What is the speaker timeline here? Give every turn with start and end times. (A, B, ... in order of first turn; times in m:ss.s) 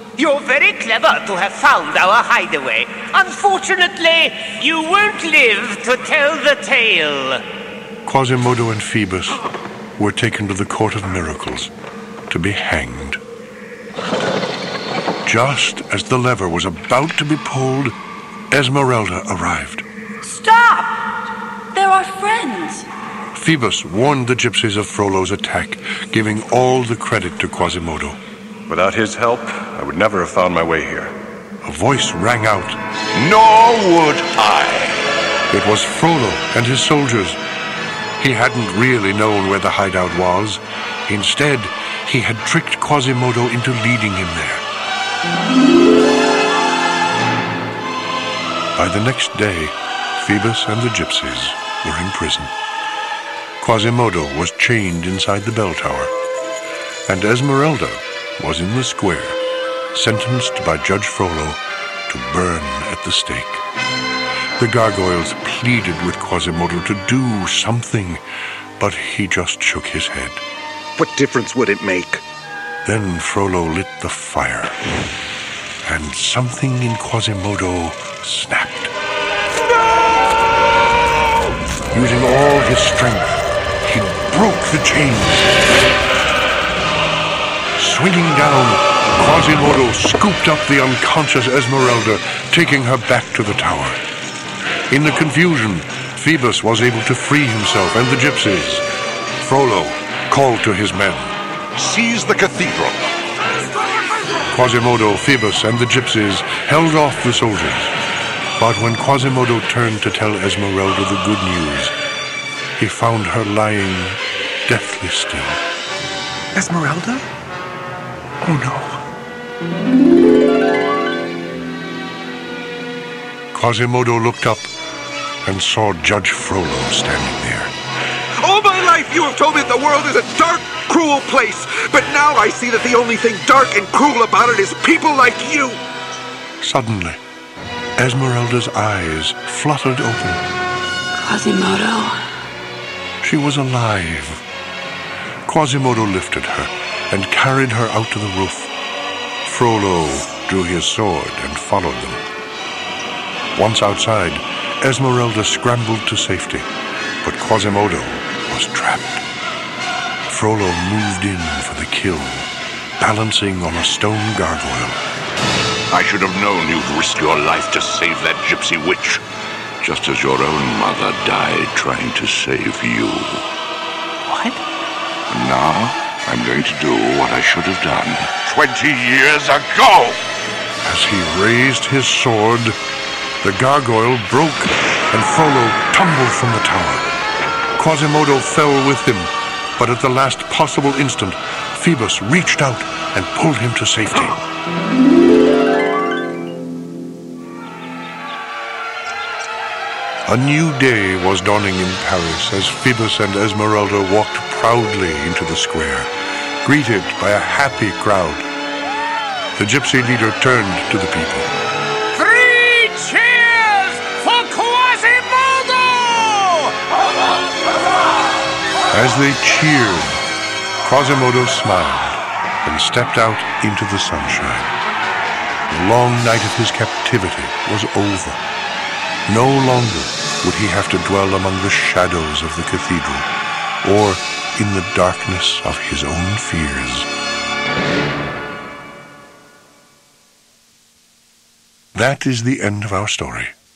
0:00.2-0:07.4 A
0:08.0-0:09.4 B
0:10.0-0:11.7 B
0:12.3-0:13.2 B
0:15.2-0:18.0 B
0:18.5-0:19.8 B
0:20.2-0:21.0 C
0:21.7-0:22.9 C
0:23.3-0:28.2 B
0:28.7-0:31.1 D
0:31.6-0:32.8 B
0:33.1-0:35.1 E
0:35.5-0:37.4 B
0:38.2-0:44.6 B
0:48.8-0:52.5 B
0:53.6-0:56.1 B
0:57.1-0:59.4 B
0:59.9-1:03.6 B
1:04.6-1:08.2 B
1:08.8-1:10.4 B
1:11.0-1:12.2 F
1:12.8-1:14.8 B
1:15.8-1:18.9 B
1:21.9-1:25.5 B
1:27.8-1:34.0 B
1:34.9-1:38.8 B
1:39.4-1:41.4 B
1:41.8-1:43.0 E
1:44.5-1:48.0 B
1:48.6-1:51.9 B
1:52.8-1:55.6 B
1:56.6-1:57.2 F
1:58.4-1:59.0 F
2:03.5-2:04.7 B
2:05.4-2:07.7 B
2:08.4-2:15.8 F
2:16.6-2:17.2 B
2:18.0-2:20.5 B
2:21.2-2:22.2 C
2:23.2-2:24.4 B
2:25.5-2:28.7 B
2:29.4-2:32.2 B
2:33.6-2:36.7 B
2:37.2-2:39.2 B
2:40.3-2:45.0 B
2:45.9-2:49.2 E
2:49.8-2:53.5 E
2:55.3-3:00.2 E
3:00.8-3:02.8 B
3:03.4-3:07.1 B
3:07.8-3:14.4 B
3:20.3-3:26.1 B
3:26.6-3:28.5 B
3:29.6-3:31.5 B
3:38.9-3:40.2 B
3:40.8-3:44.7 B
3:45.7-3:48.4 B
3:49.3-3:53.3 B
3:53.8-3:57.1 B
4:01.9-4:03.5 B